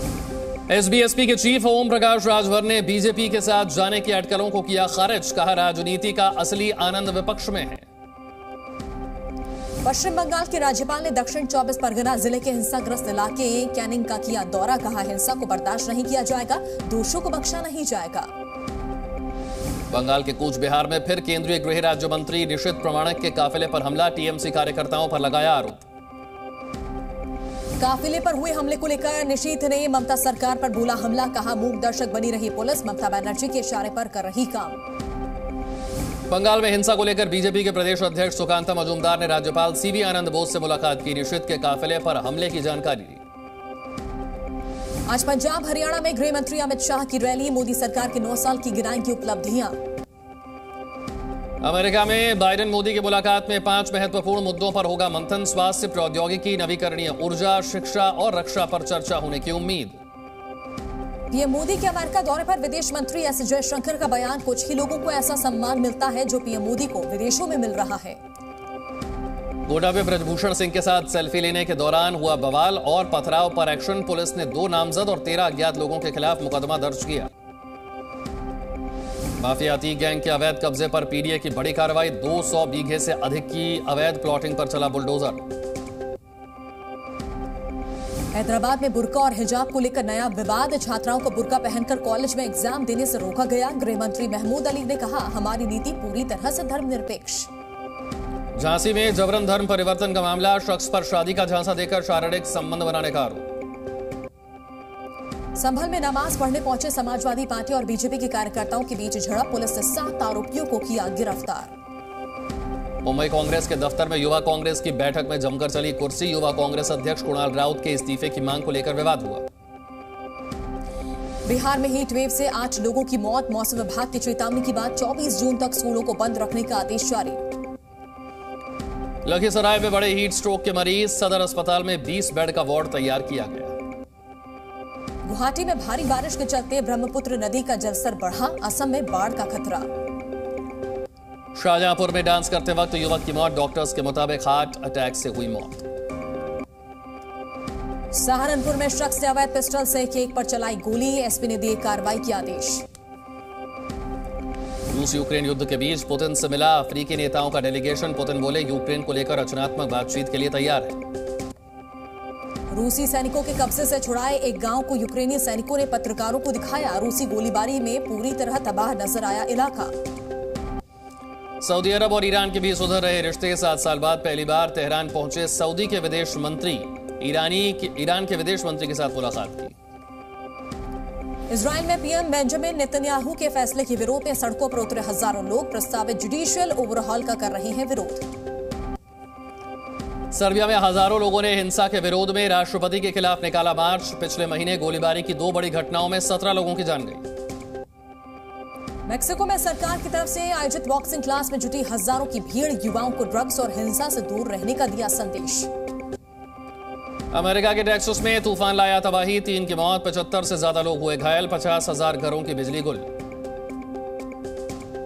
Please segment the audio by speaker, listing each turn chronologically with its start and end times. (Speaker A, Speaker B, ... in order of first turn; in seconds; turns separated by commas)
Speaker A: 0.7-7.8, Speaker B: 9.8-18.3, Speaker A: 19.9-25.8, Speaker B: 27.8-34.8, Speaker A: 36.3-43.2, Speaker B: 45.1-49.8, Speaker A: 51.6-60.0, Speaker B: 61.3-68.2, Speaker A: 69.6-77.3, Speaker A: 79.4-85.5, Speaker B: 88.3-97.5, Speaker A: 98.5-103.5, Speaker B: 105.5-111.7, Speaker A: 113.0-119.4, Speaker B: 121.5-127.4, Speaker A: 129.2-133.7, Speaker B: 135.2-139.9, Speaker A: 141.5-145.9, Speaker B: 148.1-152.8, Speaker A: 154.9-161.0, Speaker B: 162.7-169.9, Speaker A: 171.6-179.7, Speaker B: 181.5-188.2, Speaker A: 190.3-197.2, Speaker B: 199.1-205.7, Speaker A: 207.3-213.1